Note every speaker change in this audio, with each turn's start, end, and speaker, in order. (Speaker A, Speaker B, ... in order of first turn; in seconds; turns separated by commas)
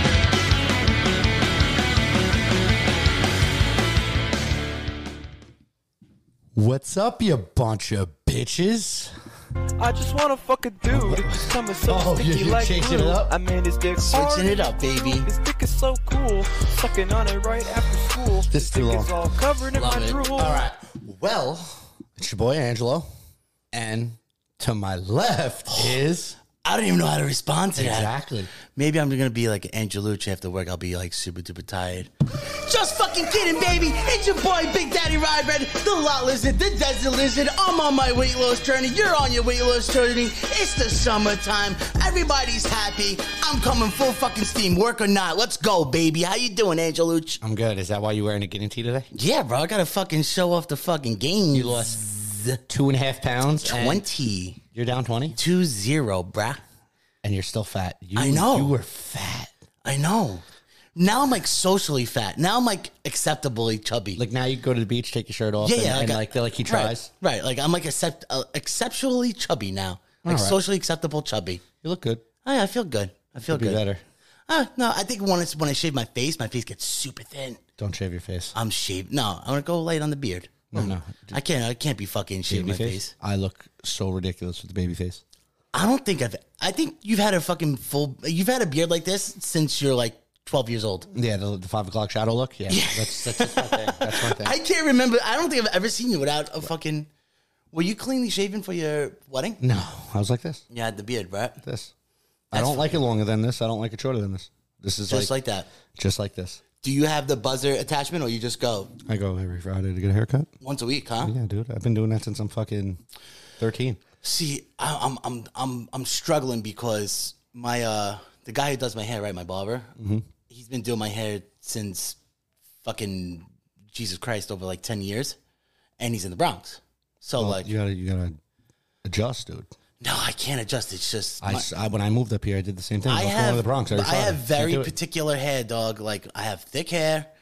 Speaker A: 6.5-9.1, Speaker B: 9.8-20.6, Speaker A: 10.9-13.3, Speaker C: 14.0-15.3, Speaker A: 18.5-19.1, Speaker C: 19.7-20.2, Speaker A: 20.4-23.1, Speaker A: 23.7-26.4, Speaker C: 25.7-26.0, Speaker C: 26.6-28.1, Speaker A: 27.8-28.5, Speaker C: 28.7-47.4, Speaker A: 47.4-49.1, Speaker C: 49.1-52.6, Speaker A: 51.5-52.0, Speaker A: 52.7-54.1, Speaker C: 53.6-54.6, Speaker A: 54.7-55.4, Speaker C: 55.4-56.6, Speaker A: 57.2-59.5, Speaker C: 58.1-58.8, Speaker C: 59.8-60.4, Speaker C: 61.0-64.2, Speaker A: 64.2-67.1, Speaker C: 65.6-71.6, Speaker A: 70.2-70.6, Speaker A: 71.8-72.2, Speaker C: 72.4-73.8, Speaker A: 73.4-74.0, Speaker C: 74.5-77.6, Speaker A: 77.8-78.5, Speaker C: 78.5-83.1, Speaker A: 80.7-81.4, Speaker A: 82.5-85.2, Speaker C: 85.7-91.1, Speaker A: 91.1-94.5, Speaker C: 92.7-97.1, Speaker C: 97.7-99.6, Speaker A: 99.6-100.6, Speaker C: 100.7-101.6, Speaker A: 101.6-101.9, Speaker C: 102.5-102.9, Speaker A: 102.5-105.3, Speaker C: 105.1-105.7, Speaker A: 105.9-106.6, Speaker C: 106.8-108.9, Speaker A: 109.0-110.5, Speaker C: 110.6-111.3, Speaker A: 111.2-113.0, Speaker A: 113.6-114.0, Speaker C: 114.2-119.9, Speaker A: 120.0-120.3, Speaker C: 120.5-122.2, Speaker C: 122.8-125.4, Speaker C: 126.0-127.7, Speaker A: 127.4-128.4, Speaker A: 129.0-129.7, Speaker C: 130.0-131.7, Speaker A: 131.4-134.9, Speaker C: 133.1-137.3